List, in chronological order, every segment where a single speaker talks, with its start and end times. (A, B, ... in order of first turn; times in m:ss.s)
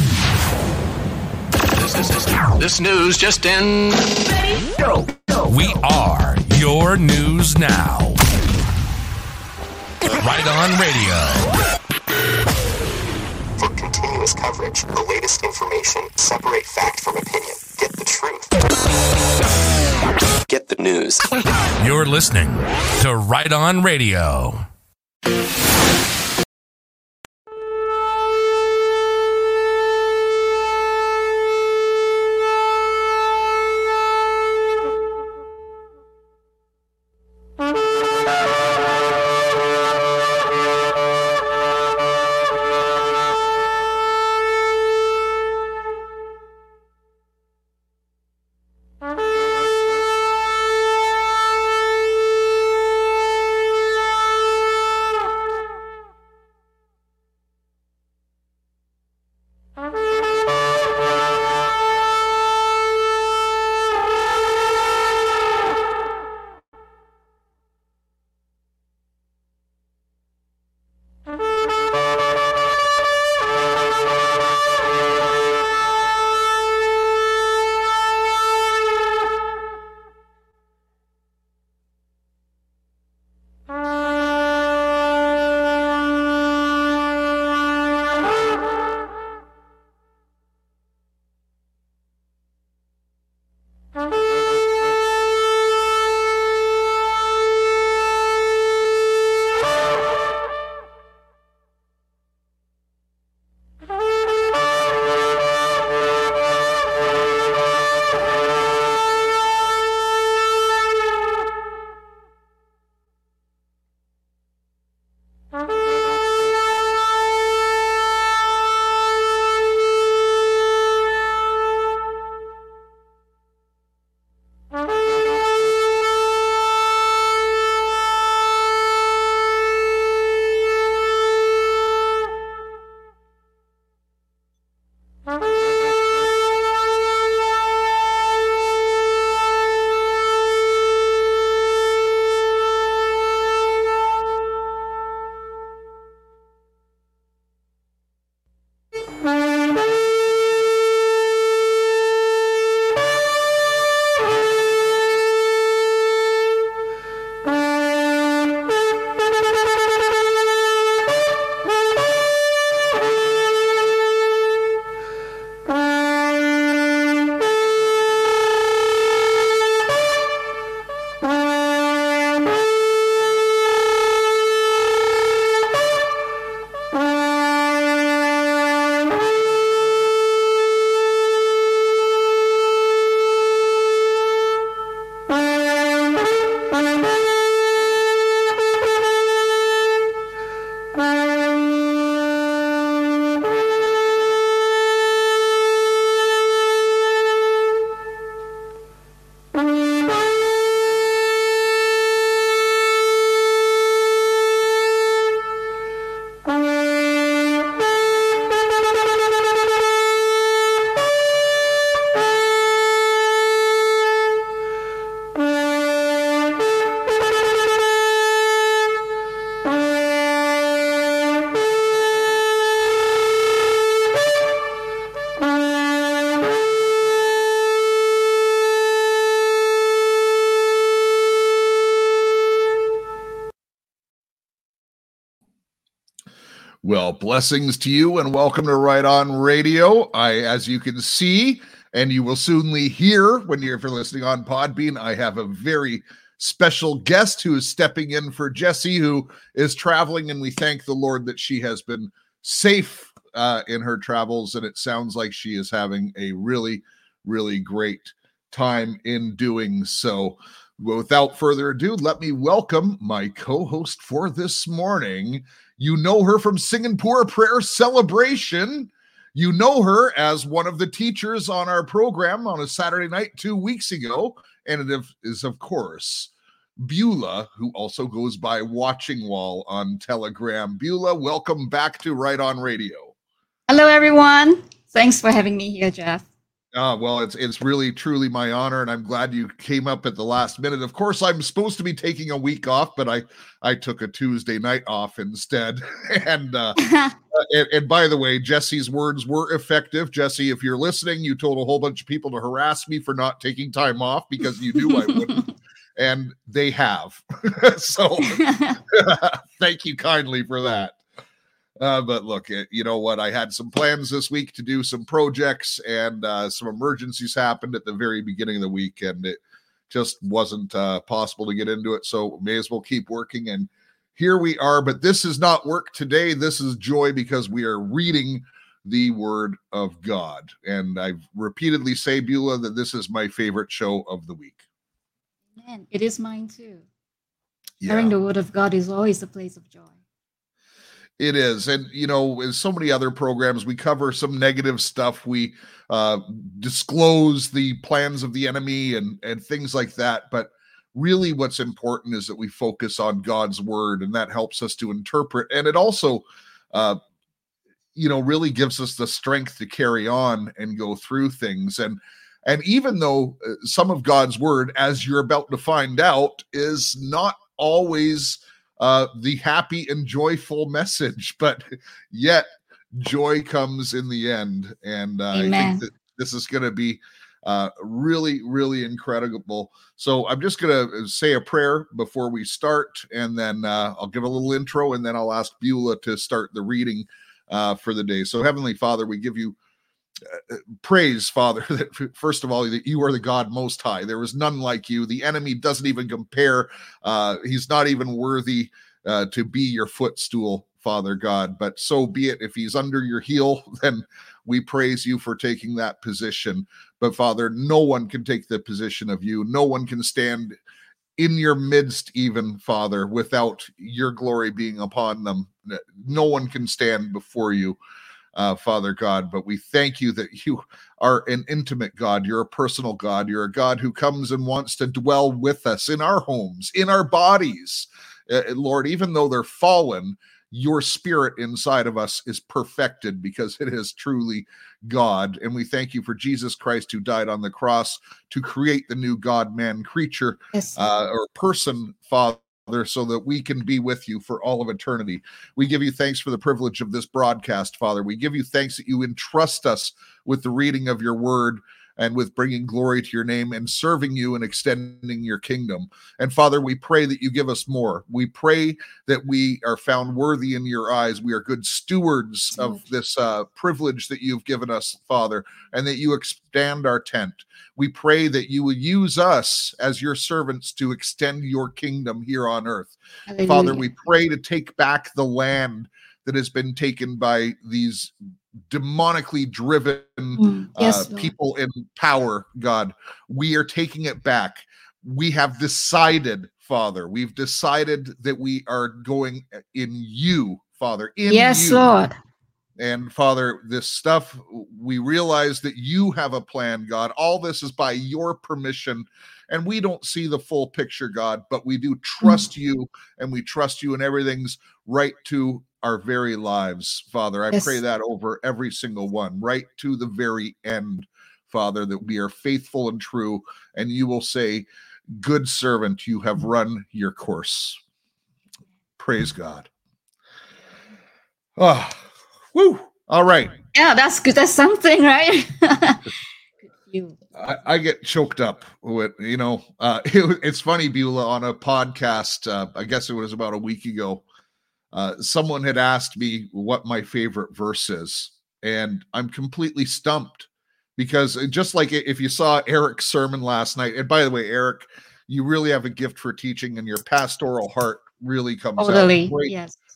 0:01.7-0:04.1 A
0:05.4-0:08.2 B
0:10.1-0:11.4 B
0:13.6-0:18.5 C
0:20.5-0:21.2 C
0:21.8-0:24.6 B
3:56.8-4:43.1 D
4:43.7-4:46.2 E
4:46.7-4:56.8 D
4:56.8-4:57.2 E
4:57.3-5:05.4 D
5:04.9-5:05.2 E
5:06.0-5:11.0 D
5:08.2-5:08.8 E
5:11.8-5:34.6 D
5:35.5-5:36.8 E
5:37.8-5:38.1 D
5:37.8-5:40.0 E
5:41.2-5:57.0 D
5:57.9-6:29.6 D
6:15.3-6:15.8 E
6:30.2-6:50.6 D
6:51.2-6:57.8 D
6:58.3-7:58.1 D
7:53.3-7:53.9 E
7:58.7-8:11.8 D
8:00.4-8:01.3 E
8:11.3-8:12.1 E
8:12.8-8:37.8 D
8:39.0-8:39.7 D
8:41.6-8:43.5 D
8:43.7-8:46.1 E
8:46.7-8:47.2 E
8:47.3-8:54.2 D
8:54.9-9:09.5 D
9:08.8-9:09.8 E